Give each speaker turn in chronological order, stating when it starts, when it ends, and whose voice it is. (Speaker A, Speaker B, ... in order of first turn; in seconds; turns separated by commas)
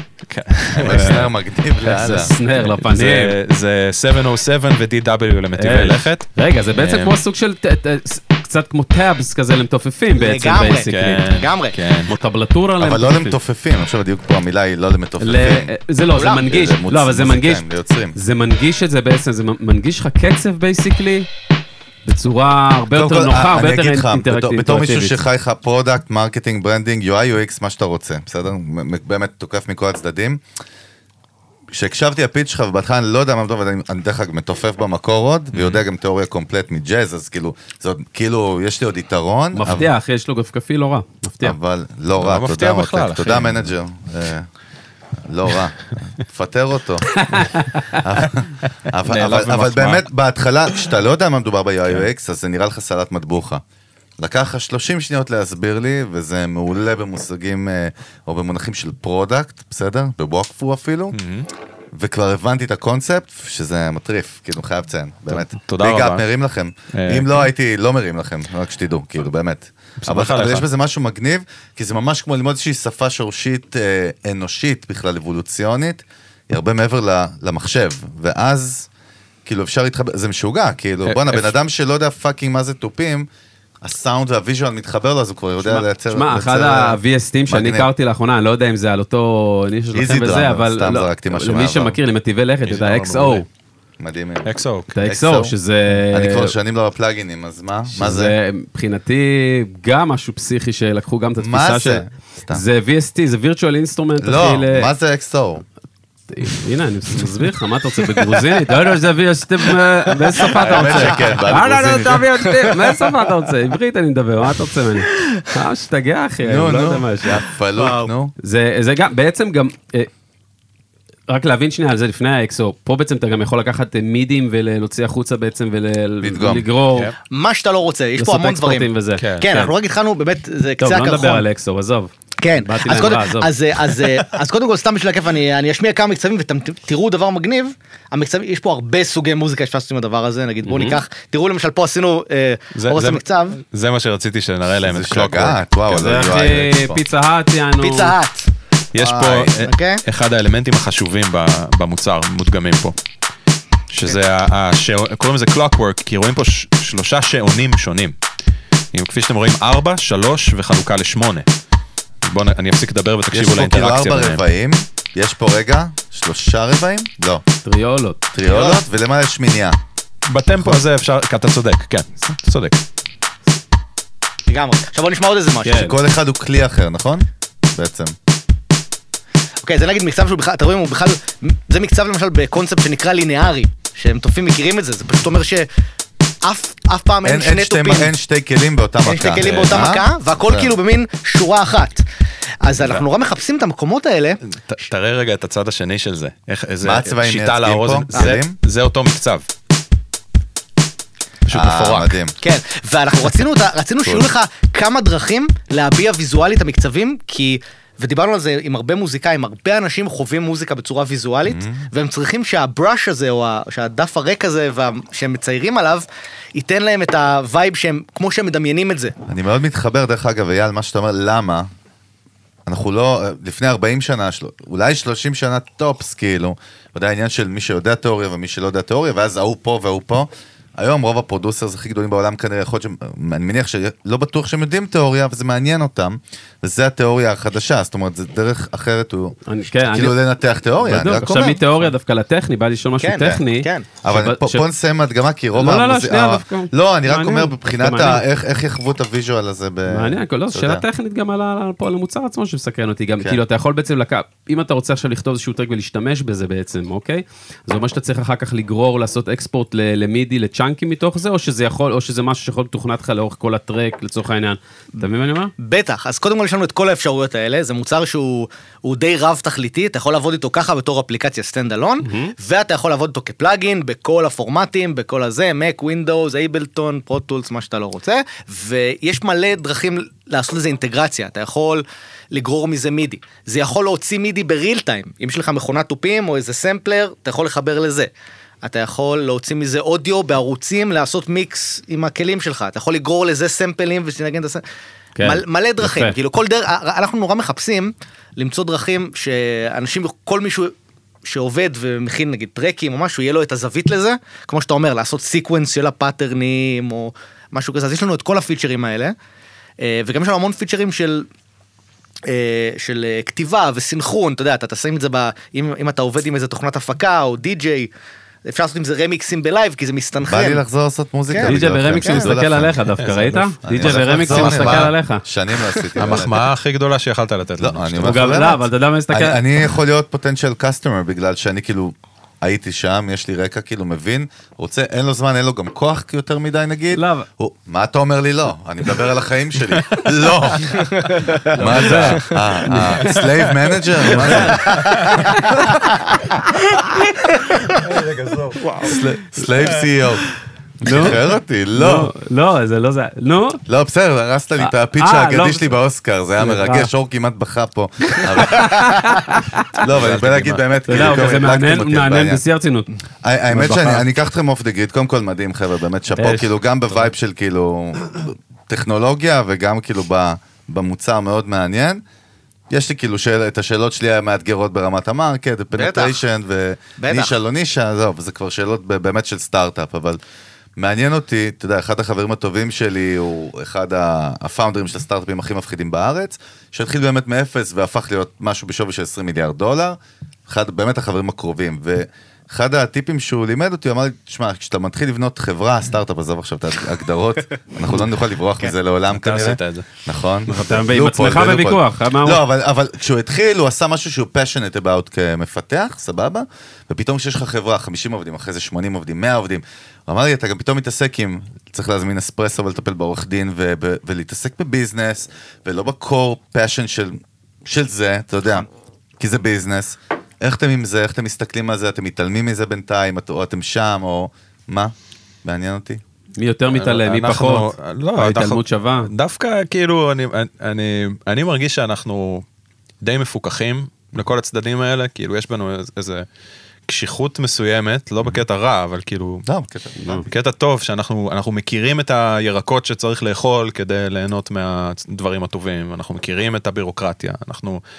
Speaker A: 0.3-1.3, Speaker B: 0.7-2.3, Speaker C: 1.8-3.4, Speaker A: 2.6-7.2, Speaker C: 5.6-11.2, Speaker D: 10.2-11.8, Speaker A: 10.9-12.1, Speaker C: 12.1-13.4, Speaker B: 12.8-15.7, Speaker C: 15.2-21.3, Speaker D: 16.1-16.5, Speaker B: 16.5-18.2, Speaker C: 22.1-25.2, Speaker B: 22.9-30.4, Speaker B: 31.7-39.9, Speaker A: 35.5-35.8, Speaker C: 39.5-41.6, Speaker B: 41.4-44.5, Speaker A: 42.2-43.7, Speaker B: 45.2-47.2, Speaker C: 47.1-48.0, Speaker B: 48.0-53.6, Speaker A: 49.1-50.0, Speaker B: 54.2-61.2, Speaker A: 61.1-61.5, Speaker B: 61.9-78.9, Speaker A: 65.3-66.3, Speaker A: 66.9-67.5, Speaker A: 70.0-70.7, Speaker B: 79.5-83.3, Speaker A: 81.0-81.5, Speaker B: 83.8-87.9, Speaker C: 85.6-93.5, Speaker B: 89.9-92.0, Speaker A: 92.7-93.5, Speaker B: 94.0-94.5, Speaker A: 94.5-94.9, Speaker C: 94.9-96.5, Speaker B: 95.0-95.5, Speaker B: 96.1-98.3, Speaker C: 97.9-104.9, Speaker B: 101.4-102.6, Speaker B: 104.2-105.7, Speaker C: 106.3-117.4, Speaker B: 110.5-112.3, Speaker B: 116.4-118.3, Speaker D: 117.8-118.1, Speaker C: 118.4-120.1, Speaker C: 121.3-127.1, Speaker B: 126.2-126.7, Speaker D: 127.3-131.4, Speaker C: 128.2-129.7, Speaker A: 129.2-129.7, Speaker C: 130.8-133.5, Speaker D: 132.4-143.6, Speaker A: 140.7-141.0, Speaker A: 142.8-146.2, Speaker B: 144.8-147.0, Speaker C: 145.9-148.2, Speaker D: 147.8-148.5, Speaker A: 148.9-152.9, Speaker B: 149.0-149.6, Speaker D: 149.6-150.0, Speaker A: 153.9-158.2, Speaker A: 158.9-161.5, Speaker A: 162.2-164.4, Speaker B: 163.3-167.4, Speaker C: 167.7-168.2, Speaker B: 168.3-169.8, Speaker D: 168.4-168.8, Speaker A: 170.3-172.8, Speaker B: 170.6-170.8, Speaker D: 174.5-176.0, Speaker C: 175.7-175.9, Speaker B: 175.7-178.1, Speaker D: 179.6-185.7, Speaker D: 186.4-188.1, Speaker B: 187.2-190.7, Speaker D: 189.1-192.0, Speaker A: 189.4-190.0, Speaker D: 192.6-194.4, Speaker A: 192.8-193.1, Speaker A: 194.7-199.4, Speaker B: 196.8-198.6, Speaker A: 201.5-202.2, Speaker B: 201.5-202.3, Speaker D: 202.4-219.2, Speaker B: 204.0-204.3, Speaker B: 211.4-211.9, Speaker B: 219.3-221.7, Speaker B: 222.7-239.4, Speaker C: 239.5-240.2, Speaker B: 239.9-241.8, Speaker C: 240.8-244.7, Speaker D: 243.0-243.9, Speaker B: 244.0-250.8, Speaker C: 245.6-248.2, Speaker C: 249.9-265.5, Speaker D: 265.6-288.1, Speaker C: 272.0-272.3, Speaker D: 288.6-294.6, Speaker C: 295.2-296.1, Speaker D: 295.2-309.2, Speaker D: 309.8-311.3, Speaker D: 312.3-317.9, Speaker D: 318.4-320.6, Speaker B: 320.3-322.8, Speaker D: 321.3-322.3, Speaker C: 321.4-325.2, Speaker A: 323.0-324.9, Speaker B: 323.6-326.5, Speaker A: 326.0-328.3, Speaker B: 327.6-340.9, Speaker C: 328.0-329.4, Speaker C: 336.9-337.3, Speaker D: 340.9-342.6, Speaker B: 341.5-345.9, Speaker C: 341.6-342.7, Speaker C: 344.1-345.6, Speaker A: 344.2-345.1, Speaker A: 347.7-348.7, Speaker C: 348.6-349.0, Speaker B: 348.8-350.3, Speaker B: 350.8-352.1, Speaker C: 350.8-351.2, Speaker C: 351.8-353.6, Speaker B: 353.7-359.2, Speaker C: 354.6-355.8, Speaker C: 356.4-356.9, Speaker C: 358.2-359.7, Speaker B: 359.8-362.4, Speaker A: 359.8-361.3, Speaker C: 360.9-362.9, Speaker B: 363.2-372.0, Speaker C: 363.5-364.1, Speaker C: 366.2-366.5, Speaker B: 372.7-380.2, Speaker D: 375.8-376.2, Speaker D: 377.0-377.4, Speaker B: 380.8-418.7, Speaker A: 399.1-399.9, Speaker C: 400.5-402.4, Speaker B: 419.2-426.0, Speaker C: 426.4-429.1, Speaker A: 426.7-432.4, Speaker A: 433.0-436.2, Speaker A: 436.9-439.4, Speaker B: 439.5-440.3, Speaker C: 440.0-440.3, Speaker A: 440.3-447.8